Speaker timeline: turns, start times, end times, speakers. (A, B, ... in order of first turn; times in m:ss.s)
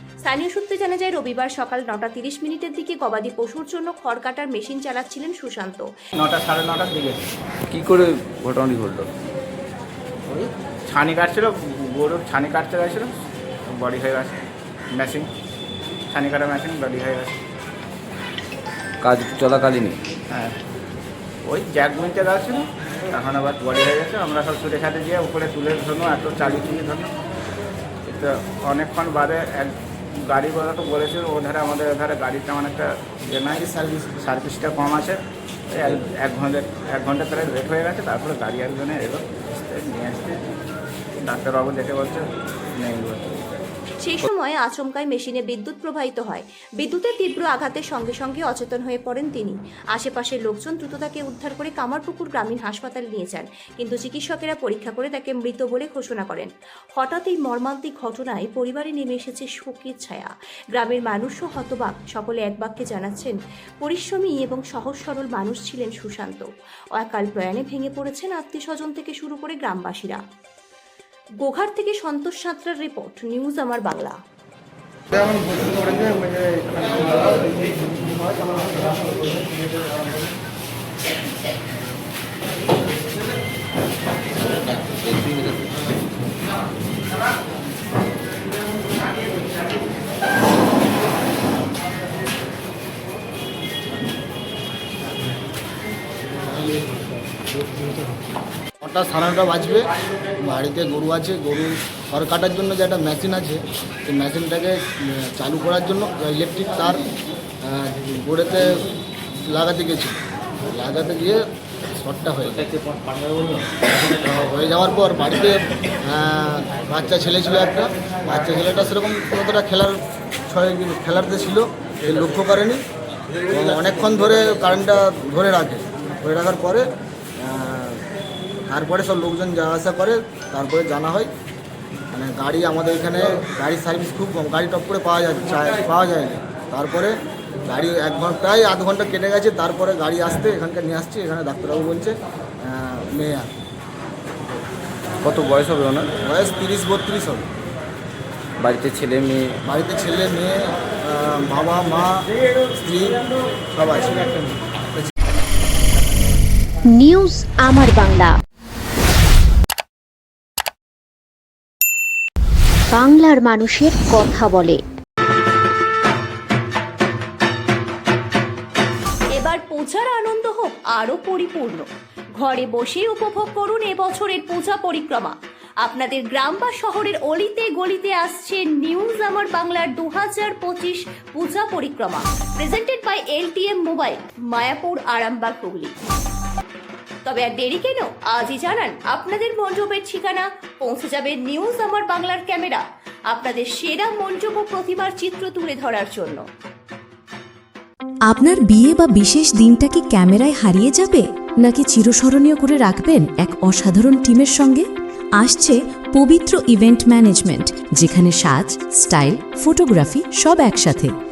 0:00.2-0:05.9 A
0:06.2-0:07.2 B
0:07.7-0:09.1 C
0:10.3-0:13.1 B
0:13.7-0:14.4 B
0:14.9-0:15.3 B
0:16.1-0:17.4 B
0:19.0-0:20.0 C
0:20.3-0:20.6 B
0:21.4-0:27.1 B
0:28.0-0:35.2 B
0:35.7-0:40.5 B
0:41.2-0:43.6 B
0:44.0-1:10.2 A
1:11.4-1:14.2 A
1:38.8-1:39.9 D
1:40.4-1:47.0 D
1:47.6-1:48.8 D
1:49.5-1:52.7 D
1:54.0-2:02.8 D
2:03.5-2:06.8 D
2:07.4-2:08.0 D
2:08.7-2:11.3 D
2:12.1-2:23.5 D
2:25.2-2:26.2 C
2:26.2-2:27.4 D
2:28.6-2:29.6 C
2:29.6-2:34.6 D
2:36.9-2:38.4 E
2:42.9-2:44.8 E
2:49.3-3:06.0 A
3:07.2-3:16.4 A
3:18.3-3:31.1 F